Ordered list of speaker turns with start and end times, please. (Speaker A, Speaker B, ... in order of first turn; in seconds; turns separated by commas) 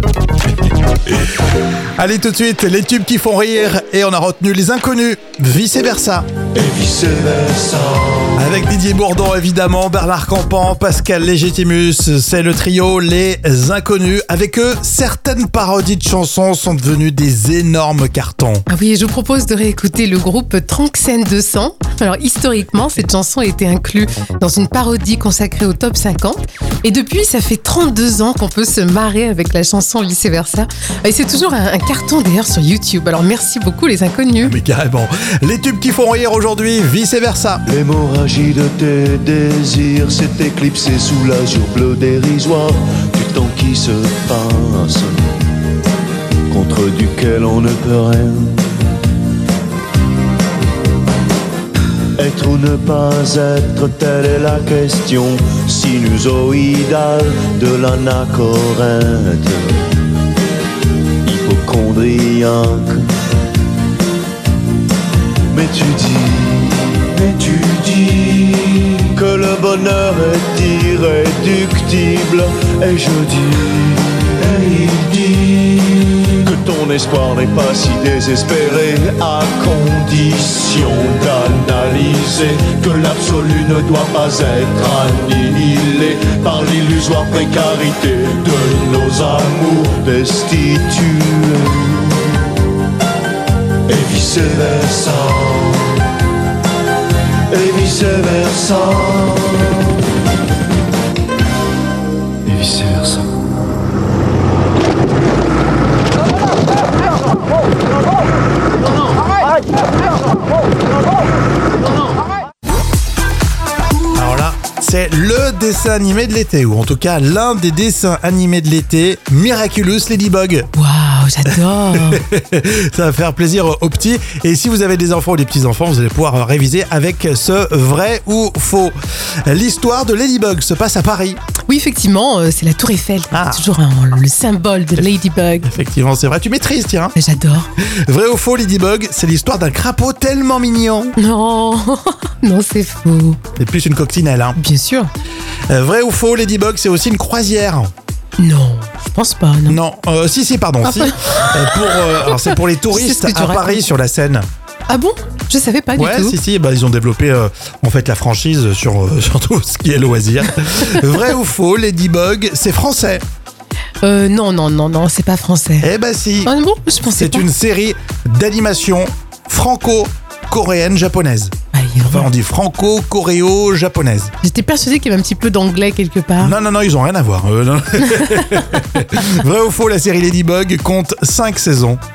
Speaker A: 2.0-6.3, Speaker B: 6.5-8.4, Speaker A: 8.3-18.6, Speaker C: 18.7-34.5, Speaker A: 34.4-37.6, Speaker B: 37.7-45.2, Speaker B: 46.5-48.6, Speaker B: 52.2-59.8, Speaker B: 61.2-63.1, Speaker B: 65.5-92.4, Speaker B: 93.9-96.0, Speaker B: 97.5-99.9, Speaker B: 102.4-103.2, Speaker A: 114.1-120.7, Speaker C: 120.7-122.2, Speaker A: 122.0-128.9, Speaker A: 129.4-131.4, Speaker C: 131.7-135.7, Speaker A: 133.3-133.7, Speaker A: 135.7-137.1, Speaker C: 137.2-137.7, Speaker A: 137.8-141.1, Speaker C: 141.2-143.4, Speaker A: 143.6-144.6, Speaker C: 144.6-145.1, Speaker A: 145.7-147.9, Speaker C: 148.4-149.8, Speaker A: 149.7-154.4, Speaker C: 150.8-153.8, Speaker C: 154.9-156.4, Speaker A: 156.0-163.2, Speaker C: 164.0-165.9, Speaker A: 165.8-166.5, Speaker C: 166.4-167.5, Speaker A: 167.1-171.5, Speaker C: 171.7-172.3, Speaker A: 172.1-174.3, Speaker C: 174.4-176.5, Speaker A: 176.4-182.0, Speaker C: 178.2-178.5